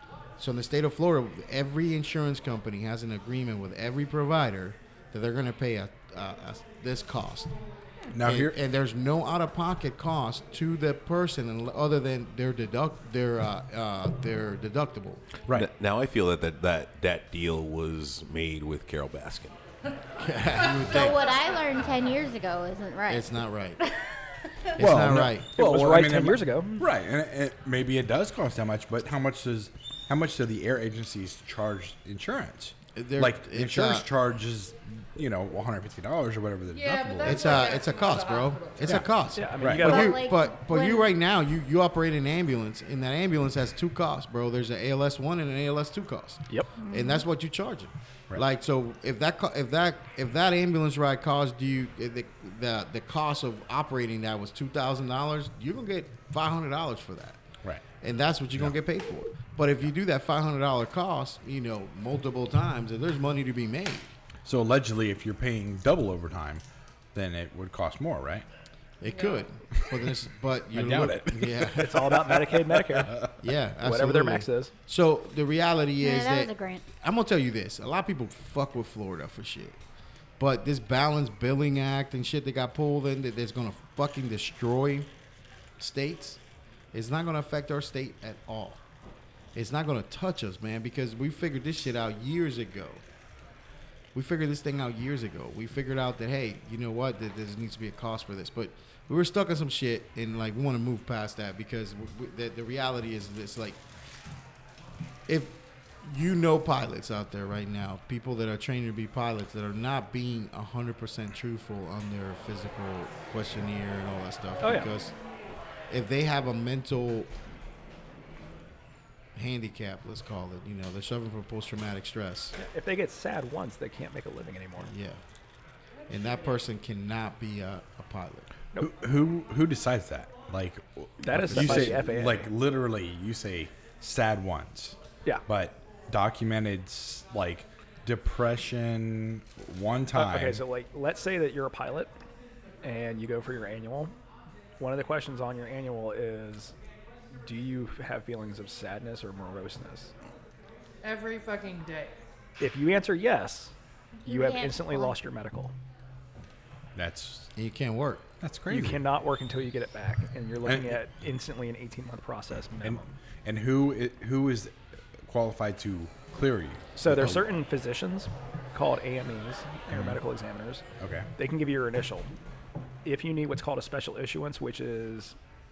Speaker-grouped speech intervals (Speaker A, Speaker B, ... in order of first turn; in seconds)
Speaker A: 0.4-7.5, 8.2-15.2, 20.2-21.2, 23.1-23.8, 24.8-25.5, 32.9-34.0, 37.2-57.4, 58.0-64.2, 69.0-72.0, 73.4-79.8, 80.4-85.1, 85.8-86.4, 86.9-88.8, 89.5-93.0, 94.1-103.8, 105.3-115.1, 115.9-117.3, 119.3-122.6, 124.8-125.2, 126.1-128.5, 131.5-132.1, 157.6-158.3
Speaker B: 8.1-8.6, 24.8-37.7, 39.6-40.0, 64.4-66.6, 67.1-68.5, 70.7-73.3, 128.8-140.6, 156.9-157.5, 158.4-159.0, 160.6-161.0, 162.8-167.5, 169.9-170.2, 171.0-171.3
Speaker C: 15.5-19.6
Speaker D: 20.6-21.8, 36.7-39.0, 126.0-126.6, 151.0-152.1
Speaker E: 20.8-23.3, 39.8-41.1, 46.8-47.2, 76.0-76.8, 154.2-155.2
Speaker F: 25.6-26.9, 39.3-40.2, 71.8-73.2, 73.8-74.7, 114.6-114.9, 122.6-124.9, 131.2-132.5, 140.1-142.1, 142.8-144.1, 144.8-146.7, 147.4-150.1, 152.6-153.7, 154.2-155.7, 158.7-163.1, 166.9-170.8, 171.3-172.3, 173.0-175.3